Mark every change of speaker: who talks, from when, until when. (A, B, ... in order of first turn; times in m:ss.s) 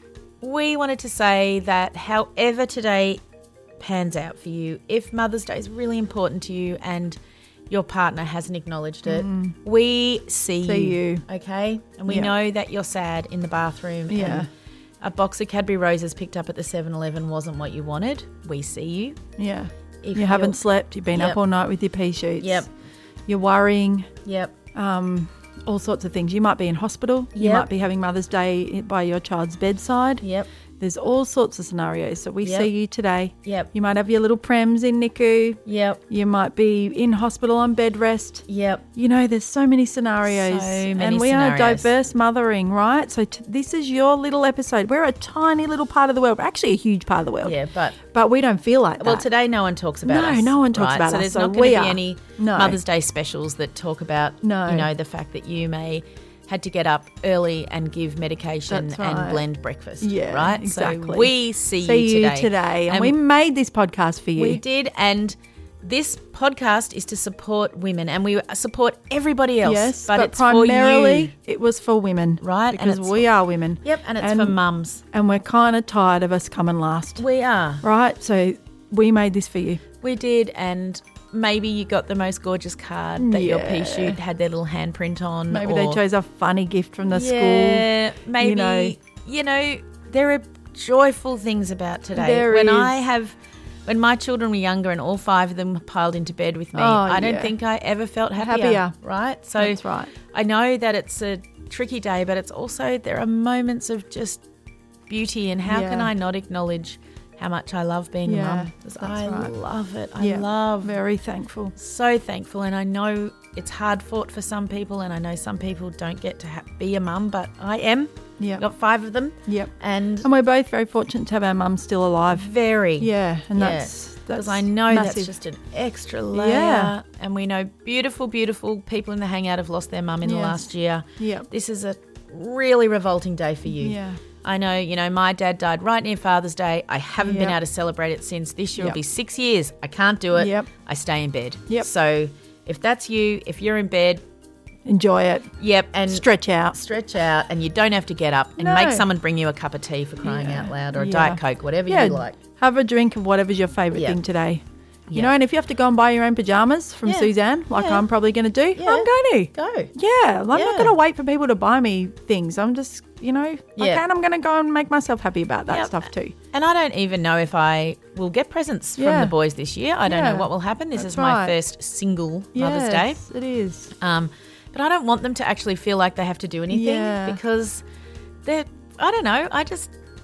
0:00.4-0:03.2 A
0:03.8-0:07.2 A
0:07.7-0:14.5 A
0:09.0-0:09.5 B
0:10.6-0:11.2 B
0:12.1-0:12.3 B
0:14.1-0:14.5 B
0:15.0-0:19.2 A
0:19.4-0:22.6 B
0:20.0-0:20.6 A
0:21.1-0:21.4 A
0:22.4-0:22.7 A
0:23.3-0:24.1 B
0:24.2-0:24.5 A
0:24.7-0:30.2 B
0:27.3-0:27.7 A
0:30.2-0:30.5 A
0:30.8-0:38.4 B
0:32.4-0:32.7 A
0:33.4-0:33.7 A
0:35.6-0:36.0 A
0:38.5-0:38.8 A
0:38.9-0:47.6 B
0:40.2-0:41.9 A
0:47.4-0:48.0 A
0:48.1-0:49.3 B
0:49.0-1:03.2 A
0:50.0-0:52.8 B
0:54.4-0:54.9 B
0:58.7-0:59.4 B
1:00.0-1:04.6 B
1:04.4-1:11.3 A
1:09.6-1:14.6 B
1:12.4-1:13.2 A
1:13.8-1:15.0 A
1:15.1-1:17.2 B
1:17.2-1:17.8 A
1:17.8-1:19.8 B
1:20.0-1:26.0 A
1:23.2-1:24.2 B
1:25.5-1:29.0 B
1:27.1-1:39.8 A
1:32.2-1:33.0 B
1:36.7-1:37.6 B
1:38.4-1:38.9 B
1:39.6-1:40.1 B
1:40.3-1:44.4 A
1:45.1-1:51.0 A
1:45.6-1:46.1 B
1:48.2-1:49.5 B
1:50.2-1:51.7 B
1:51.7-2:00.3 A
1:59.4-1:59.7 B
2:00.2-2:05.3 B
2:02.3-2:24.2 A
2:06.3-2:06.9 B
2:10.2-2:11.5 B
2:13.7-2:14.2 B
2:17.2-2:17.6 B
2:20.3-2:20.7 B
2:24.8-2:25.5 B
2:25.6-2:32.4 A
2:26.1-2:26.8 B
2:28.6-2:29.0 B
2:30.2-2:46.3 B
2:33.9-2:34.2 A
2:37.0-2:38.0 A
2:38.8-2:39.9 A
2:40.5-2:40.9 A
2:43.8-2:44.0 A
2:45.7-2:53.2 A
2:49.0-2:49.3 B
2:50.0-2:51.6 B
2:52.5-2:53.9 B
2:54.0-2:57.8 A
2:56.7-2:57.4 B
2:58.4-2:59.9 A